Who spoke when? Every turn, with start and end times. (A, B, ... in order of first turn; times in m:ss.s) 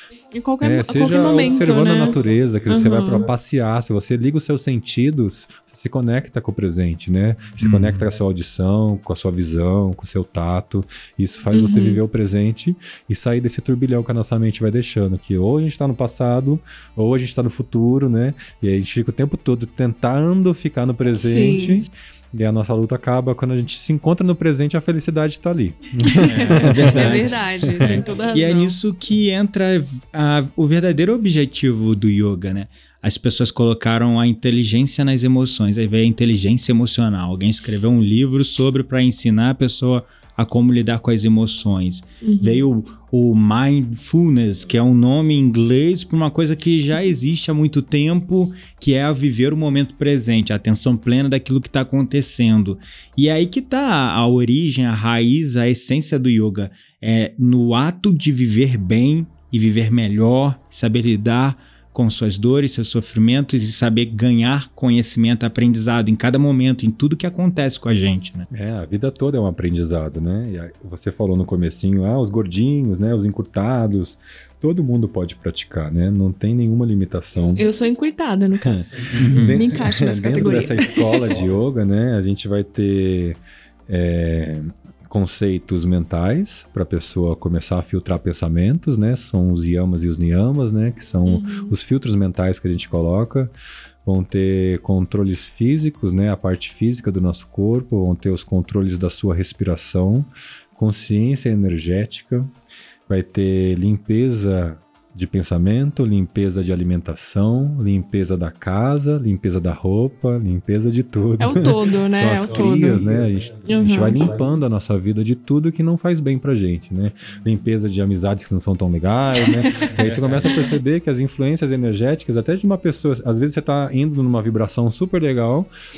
0:00.3-0:02.2 A
0:00.6-0:28.0 B
0:02.7-0:03.2 A
0:07.6-0:08.0 C
0:11.5-0:12.0 A
0:21.2-0:21.8 A
0:26.0-0:28.8 A
0:26.2-1:08.5 C
0:42.2-0:42.6 A
1:08.5-1:17.6 B
1:17.6-1:21.2 A
1:18.6-1:33.5 B
1:19.1-1:19.6 C
1:31.2-1:31.7 A
1:34.0-1:42.5 B
1:43.1-2:05.7 B
1:51.4-1:53.0 A
1:53.6-1:54.2 A
2:00.2-2:00.5 C